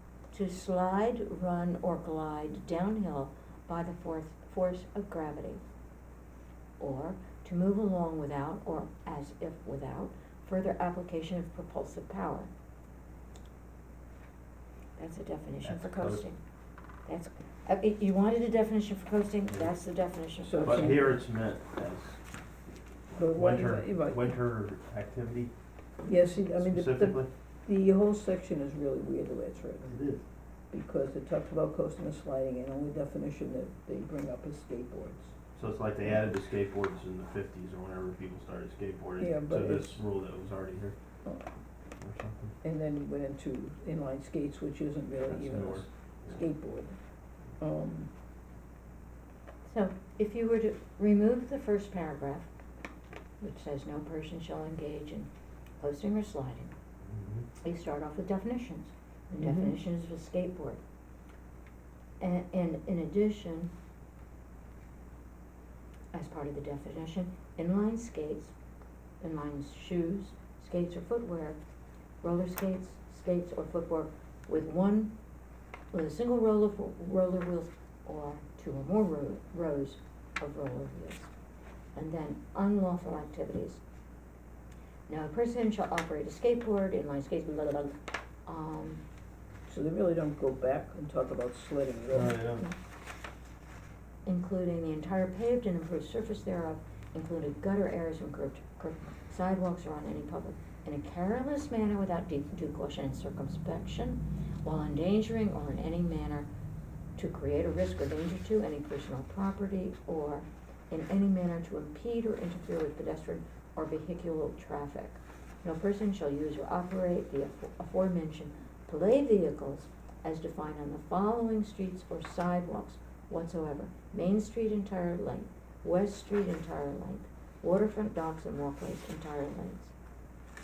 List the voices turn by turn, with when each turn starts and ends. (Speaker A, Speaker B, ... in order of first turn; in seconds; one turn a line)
Speaker A: 0.3-5.6
Speaker A: 6.8-12.5
Speaker A: 15.0-16.4
Speaker B: 15.6-16.2
Speaker A: 17.1-21.0
Speaker C: 20.4-21.2
Speaker B: 20.6-22.2
Speaker C: 23.1-24.3
Speaker B: 23.1-25.5
Speaker C: 26.0-29.9
Speaker B: 26.6-27.3
Speaker B: 29.8-30.2
Speaker C: 30.7-35.3
Speaker B: 35.6-41.0
Speaker C: 39.2-40.0
Speaker B: 42.0-42.5
Speaker C: 42.6-47.0
Speaker B: 45.2-46.4
Speaker C: 47.6-48.1
Speaker A: 49.7-52.5
Speaker A: 53.4-56.7
Speaker B: 57.1-57.5
Speaker A: 57.6-60.8
Speaker C: 59.4-59.8
Speaker A: 62.2-63.7
Speaker A: 66.1-68.5
Speaker A: 69.2-71.6
Speaker A: 72.2-75.1
Speaker A: 75.9-81.3
Speaker A: 82.0-83.8
Speaker A: 85.1-89.0
Speaker C: 89.7-92.4
Speaker B: 92.1-92.7
Speaker A: 94.3-106.5
Speaker A: 107.2-129.9